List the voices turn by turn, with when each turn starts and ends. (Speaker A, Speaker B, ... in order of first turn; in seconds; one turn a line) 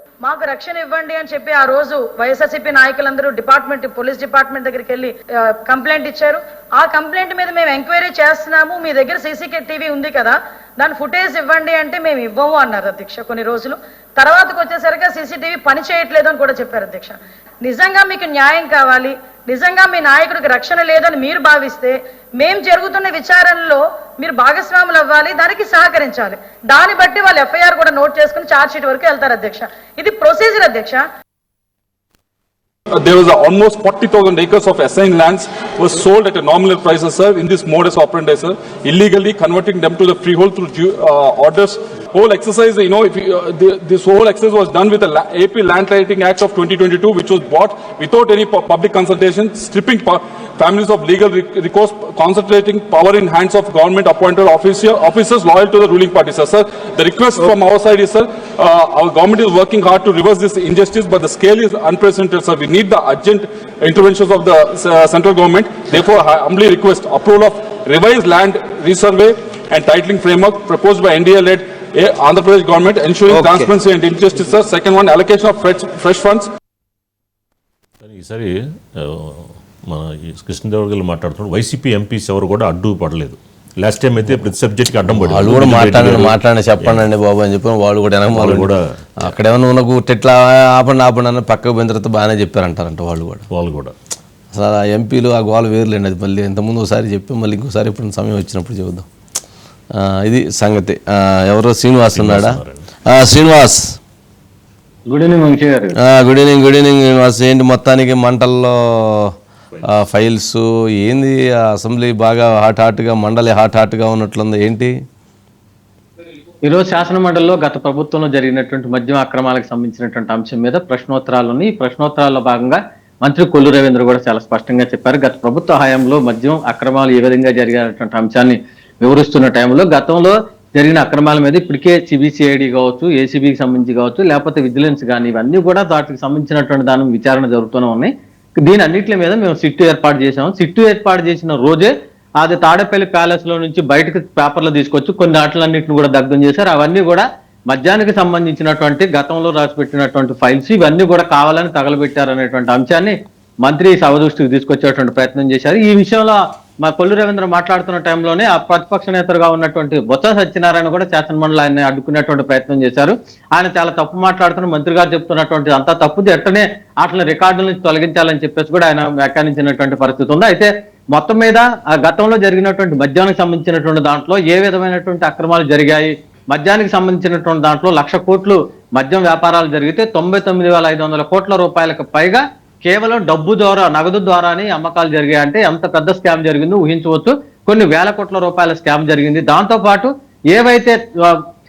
Speaker A: 0.2-31.0
Speaker B: 32.9-76.5
Speaker C: 78.0-87.1
Speaker D: 85.2-88.7
Speaker C: 88.3-89.3
Speaker D: 89.2-93.4
Speaker C: 93.5-93.9
Speaker D: 94.5-99.1
Speaker D: 100.0-103.8
Speaker C: 102.1-102.9
Speaker E: 105.1-106.0
Speaker D: 106.0-109.3
Speaker D: 109.8-114.9
Speaker E: 116.6-191.4